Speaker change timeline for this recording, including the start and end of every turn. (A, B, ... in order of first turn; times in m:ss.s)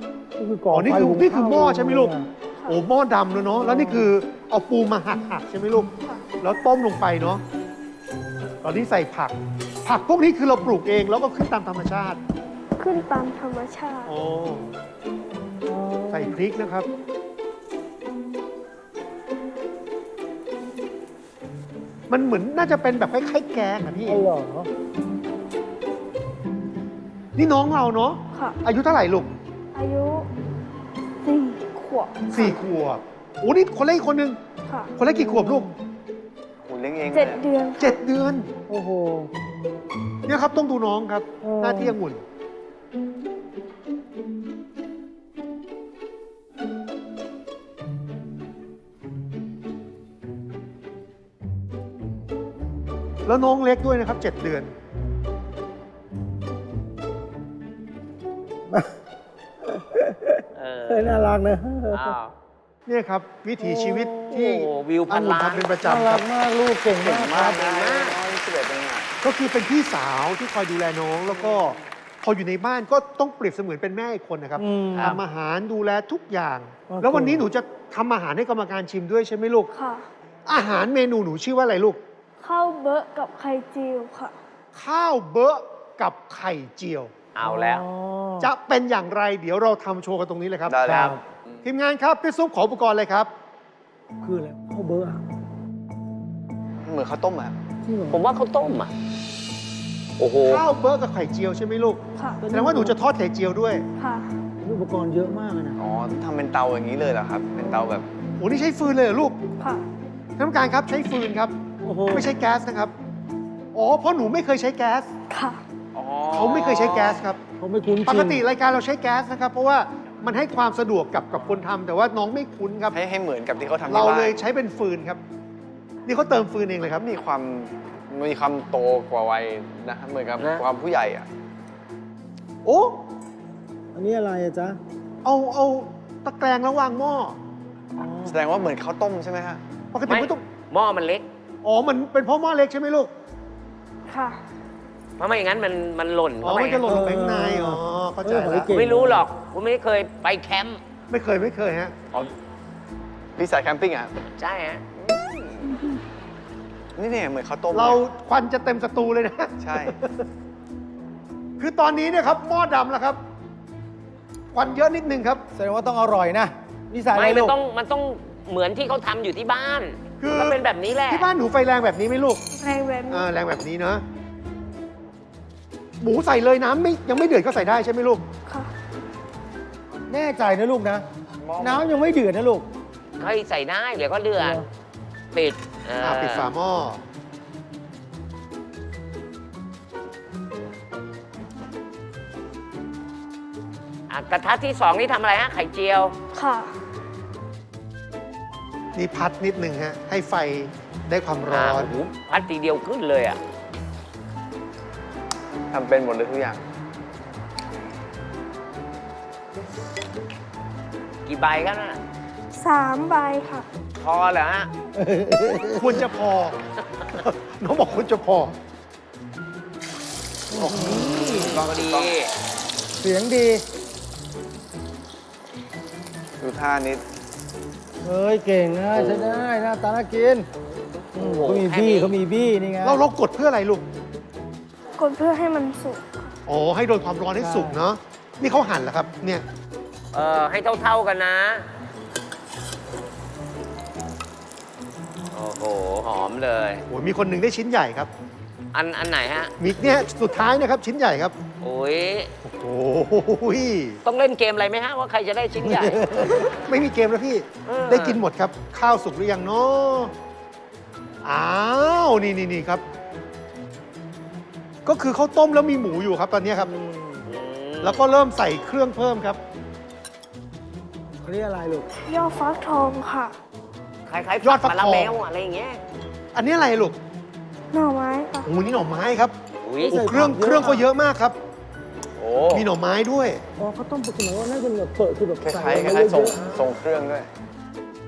0:00.4-0:02.3 A
0:00.7-0:02.1 B
0:02.7-0:07.4 B
0:03.6-0:04.1 A
0:08.6-0:12.2 B
0:12.8-0:14.1 C
0:14.1-0:14.7 B
0:15.6-0:16.4 A
0:16.1-0:16.9 B
0:22.1-0:24.2 B
0:24.0-0:24.7 A
0:27.4-0:29.4 B
0:28.3-0:28.6 C
0:29.7-0:30.3 C
0:31.2-0:32.6 C
0:32.3-0:34.4 B
0:34.7-0:34.9 C
0:35.0-0:35.7 B
0:35.1-0:35.7 A
0:36.6-0:37.4 D
0:37.1-0:38.0 C
0:37.8-0:38.5 B
0:38.7-0:39.3 A
0:40.3-0:42.2 B
0:41.4-0:42.0 A
0:53.3-0:54.7 B
0:58.7-0:59.0 A
0:59.6-1:02.2 A
1:00.5-1:01.1 E
1:01.9-1:02.3 E
1:02.9-1:06.2 B
1:03.6-1:04.5 A
1:04.3-1:05.7 E
1:05.8-1:07.6 A
1:07.0-1:09.1 D
1:07.2-1:08.2 E
1:09.2-1:19.7 B
1:14.6-1:15.2 A
1:16.9-1:17.4 A
1:19.7-1:20.1 C
1:20.5-1:22.0 B
1:22.4-1:24.4 C
1:24.7-1:27.1 B
1:27.4-1:27.9 E
1:27.4-1:28.5 A
1:28.4-1:33.3 B
1:30.7-1:31.7 D
1:30.9-1:31.2 A
1:34.2-1:35.2 A
1:36.8-1:37.6 D
1:37.8-1:38.2 A
1:38.1-1:38.9 E
1:40.2-1:40.7 E
1:40.4-1:43.8 B
1:42.4-1:43.0 A
1:44.0-1:44.3 C
1:44.6-1:45.8 A
1:45.8-1:48.1 D
1:48.4-1:49.4 B
1:49.6-1:49.8 C
1:50.4-1:51.6 B
1:51.8-1:52.3 A
1:52.1-1:52.9 B
1:53.7-1:55.1 B
1:55.3-1:55.6 C
1:55.9-1:57.0 D
1:56.3-1:57.4 B
1:56.5-1:57.2 E
1:57.6-1:58.5 A
1:58.1-2:03.0 B
2:02.9-2:04.4 D
2:03.9-2:05.2 B
2:06.1-2:07.0 B
2:07.0-2:11.3 D
2:12.6-2:13.0 B
2:13.9-2:14.8 A
2:15.2-2:17.4 B
2:18.0-2:18.4 A
2:18.3-2:19.6 D
2:19.9-2:20.4 B
2:20.1-2:21.2 E
2:21.6-2:23.1 B
2:24.1-2:24.4 C
2:25.2-2:26.8 E
2:26.4-2:28.7 B
2:26.9-2:29.3 A
2:28.7-2:30.8 E
2:31.1-2:32.0 B
2:33.4-2:34.1 D
2:34.4-2:34.8 E
2:35.0-2:35.8 D
2:37.0-2:38.0 D
2:37.7-2:40.3 B
2:39.6-2:40.0 D
2:41.6-2:43.2 B
2:44.5-2:45.4 B
2:45.5-2:47.6 A
2:47.1-2:51.3 E
2:50.2-2:50.6 B
2:51.1-2:52.4 B
2:52.5-2:53.3 C
2:53.1-2:54.0 B
2:56.0-2:58.2 B
3:00.1-3:01.1 A
3:01.4-3:01.9 D
3:01.6-3:02.7 A
3:03.2-3:04.6 E
3:04.4-3:04.7 A
3:05.3-3:06.5 E
3:06.0-3:07.0 B
3:14.1-3:16.1 E
3:16.3-3:16.7 C
3:19.0-3:21.9 B
3:21.5-3:23.4 E
3:25.7-3:26.6 D
3:31.3-3:32.0 E
3:32.5-3:33.7 C
3:34.0-3:34.7 E
3:35.0-3:36.1 A
3:35.8-3:36.6 B
3:37.1-3:38.6 B
3:40.5-3:41.5 A
3:40.7-3:42.2 D
3:40.7-3:42.3 E
3:43.0-3:43.6 A
3:46.4-3:47.0 D
3:48.0-3:50.5 A
3:48.9-3:49.4 E
3:51.2-3:52.1 E
3:51.2-3:53.0 A
3:52.8-3:53.9 B
3:55.0-3:56.2 C
3:56.5-3:59.4 B
3:57.4-3:57.8 A
4:00.1-4:01.7 E
4:05.3-4:06.8 E
4:06.9-4:08.1 B
4:08.7-4:09.5 E
4:09.6-4:11.4 B
4:11.6-4:12.3 E
4:12.4-4:14.0 B
4:14.0-4:16.0 E
4:15.6-4:16.5 A
4:16.6-4:20.1 B
4:17.7-4:18.2 E
4:21.2-4:22.8 B
4:24.8-4:26.7 B
4:26.6-4:27.3 A
4:27.3-4:28.0 E
4:27.8-4:29.4 B
4:31.2-4:31.9 A
4:32.1-4:33.3 C
4:34.1-4:35.8 E
4:34.4-4:35.2 B
4:36.3-4:37.0 B
4:37.7-4:38.5 C
4:38.4-4:39.3 B
4:39.6-4:40.0 E
4:39.8-4:40.9 A
4:39.9-4:41.4 B
4:42.2-4:42.7 D
4:42.5-4:43.4 B
4:43.6-4:46.6 A
4:45.4-4:47.3 D